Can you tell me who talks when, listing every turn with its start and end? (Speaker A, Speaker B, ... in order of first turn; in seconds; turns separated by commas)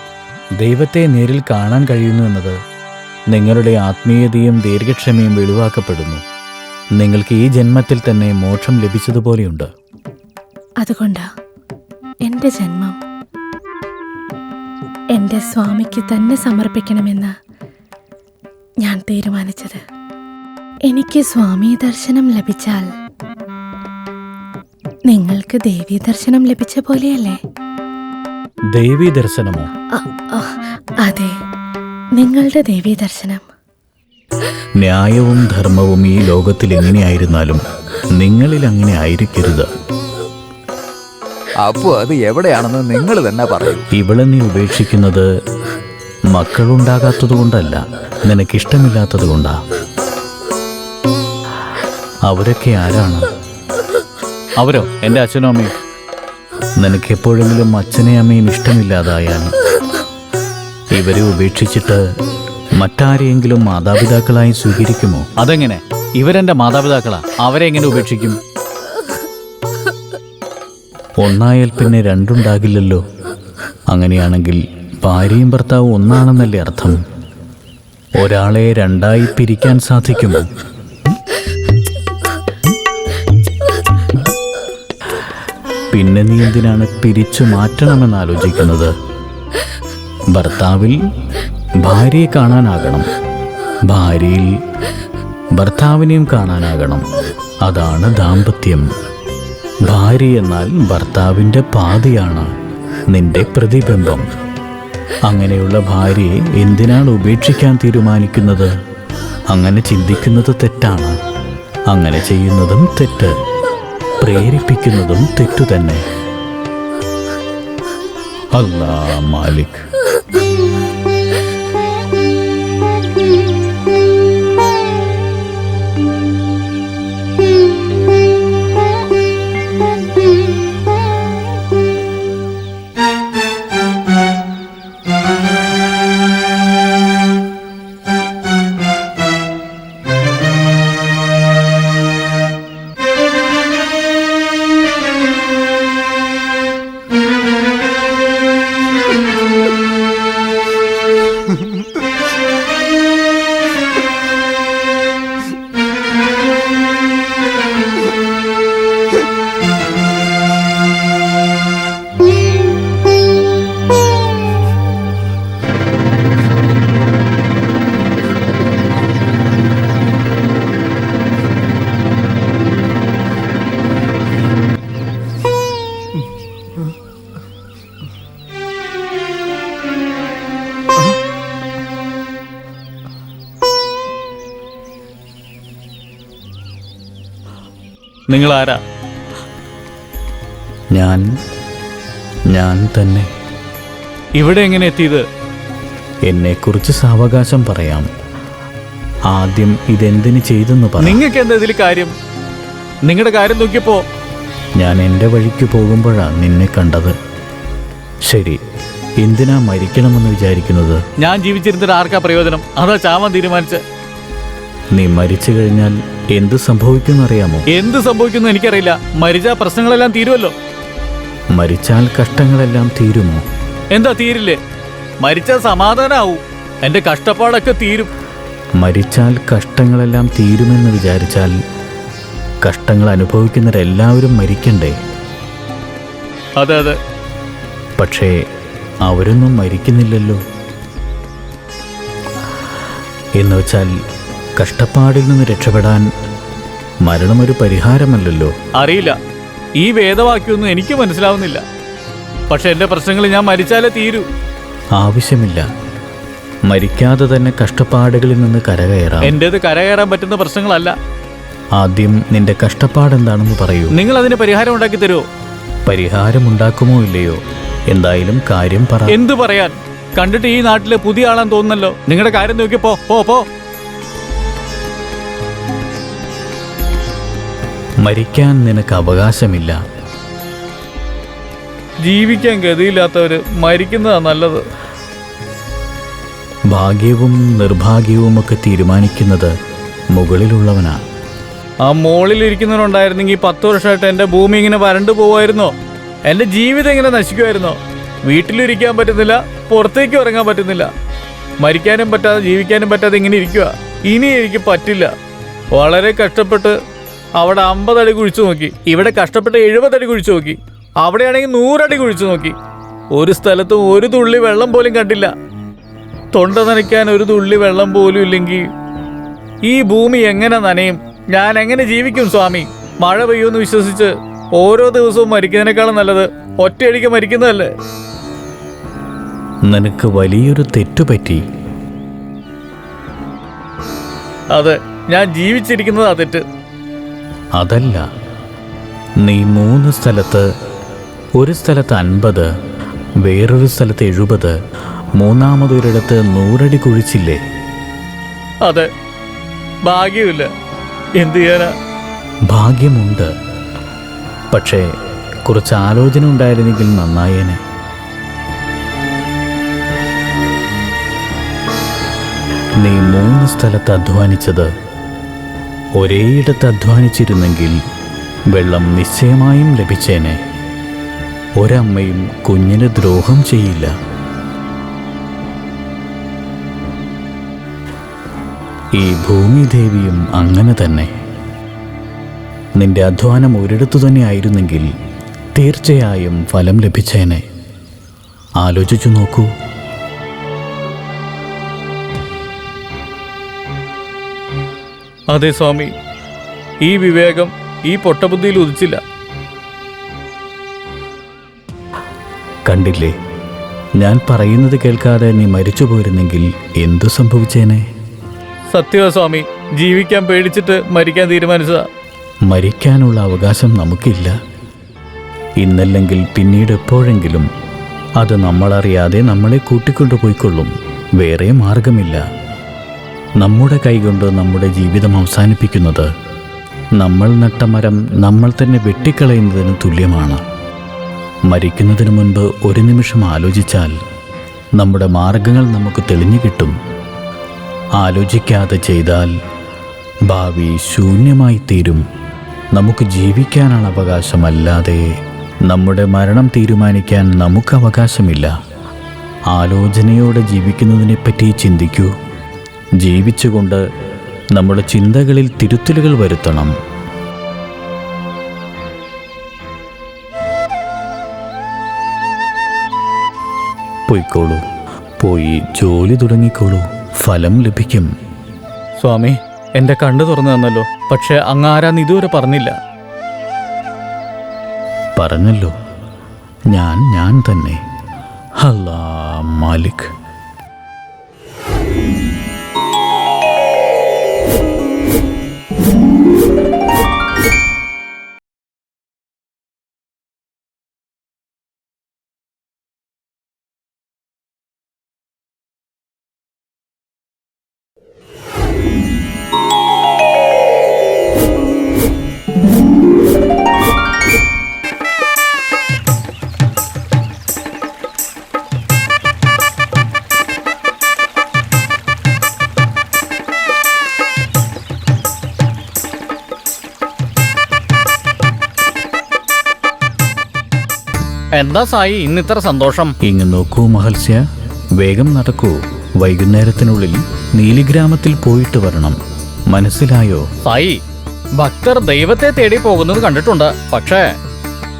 Speaker A: 0.6-2.6, Speaker A: 3.3-6.2, Speaker A: 7.0-9.7, Speaker B: 10.8-11.3, Speaker B: 12.2-13.0, Speaker B: 15.1-17.3, Speaker B: 18.8-19.8, Speaker B: 20.9-22.9, Speaker B: 25.1-27.4, Speaker A: 28.7-29.7, Speaker B: 29.9-31.3, Speaker B: 32.2-33.4, Speaker A: 34.8-37.6, Speaker A: 38.2-39.7, Speaker C: 41.6-43.9, Speaker A: 44.0-45.3, Speaker A: 46.3-49.6, Speaker A: 52.3-53.3, Speaker D: 54.6-55.7, Speaker A: 56.8-59.5, Speaker A: 60.9-62.0, Speaker A: 62.8-65.3, Speaker D: 65.4-68.4, Speaker A: 71.2-73.0, Speaker A: 73.9-77.0, Speaker A: 78.2-80.5, Speaker A: 85.9-88.9, Speaker A: 90.3-91.0, Speaker A: 91.8-93.1, Speaker A: 93.9-94.6, Speaker A: 95.5-97.1, Speaker A: 97.6-98.9, Speaker A: 99.8-102.5, Speaker A: 103.1-104.3, Speaker A: 105.3-108.7, Speaker A: 109.5-111.2, Speaker A: 111.9-113.4, Speaker A: 114.2-116.0, Speaker A: 118.5-119.8, Speaker D: 188.3-188.8, Speaker A: 190.9-191.2, Speaker A: 192.5-193.3, Speaker D: 194.4-195.3, Speaker A: 196.3-198.1, Speaker A: 199.3-201.2, Speaker D: 201.0-202.1, Speaker D: 203.1-204.0, Speaker A: 204.8-207.2, Speaker A: 208.2-208.6, Speaker A: 209.2-211.0, Speaker D: 211.2-213.8, Speaker A: 214.9-217.7, Speaker D: 217.7-220.5, Speaker A: 221.5-223.4, Speaker D: 223.9-224.6, Speaker D: 225.2-228.1, Speaker A: 228.8-231.5, Speaker A: 232.6-235.0, Speaker D: 236.6-237.0, Speaker A: 238.0-238.4, Speaker A: 239.1-240.4, Speaker A: 243.4-243.9, Speaker A: 244.6-246.1, Speaker A: 247.0-248.5, Speaker D: 248.8-249.2, Speaker D: 249.8-251.6, Speaker D: 252.5-254.3, Speaker A: 255.0-255.7, Speaker A: 256.7-259.4, Speaker D: 259.2-260.9, Speaker A: 261.8-263.9, Speaker D: 263.9-265.3, Speaker A: 265.9-269.2, Speaker D: 269.1-273.5, Speaker A: 278.0-279.8, Speaker D: 282.0-284.6, Speaker A: 286.7-289.5, Speaker A: 290.1-291.0, Speaker D: 291.8-295.7, Speaker D: 296.3-300.9, Speaker D: 301.6-305.1, Speaker D: 305.7-306.8, Speaker D: 307.4-312.6, Speaker D: 313.1-315.3, Speaker D: 316.3-318.7, Speaker D: 319.6-327.7, Speaker A: 329.7-331.4, Speaker D: 334.5-336.4, Speaker A: 337.6-338.0, Speaker A: 339.2-340.5, Speaker A: 341.4-342.5, Speaker A: 343.2-344.6, Speaker A: 345.2-347.4, Speaker D: 349.9-350.5, Speaker D: 351.2-351.7, Speaker A: 352.5-353.3, Speaker A: 354.5-354.9, Speaker A: 355.5-357.6, Speaker A: 362.8-364.7, Speaker A: 366.0-367.8, Speaker A: 368.5-370.4, Speaker A: 371.6-373.9, Speaker A: 379.0-381.1, Speaker A: 382.8-384.9, Speaker A: 385.6-387.4, Speaker A: 388.6-389.5, Speaker D: 395.3-395.9, Speaker D: 396.8-399.0, Speaker A: 402.7-403.1, Speaker A: 404.0-407.9, Speaker D: 408.7-411.9, Speaker A: 412.5-414.4, Speaker A: 415.6-417.5, Speaker A: 418.2-422.2, Speaker A: 423.4-426.1, Speaker A: 427.0-430.4, Speaker A: 431.5-434.0, Speaker A: 434.8-436.8, Speaker A: 438.0-439.4, Speaker A: 440.3-442.0, Speaker A: 442.8-445.1, Speaker A: 445.6-448.5, Speaker A: 449.5-452.1, Speaker A: 453.0-453.9, Speaker A: 454.5-456.7, Speaker A: 464.1-464.6, Speaker A: 465.2-468.1, Speaker D: 469.0-472.8, Speaker A: 475.2-475.7, Speaker A: 476.7-477.8, Speaker A: 478.6-480.1, Speaker D: 521.5-523.1, Speaker A: 523.2-524.4, Speaker A: 525.0-529.2, Speaker A: 529.7-530.5, Speaker D: 530.6-531.0, Speaker D: 531.6-534.3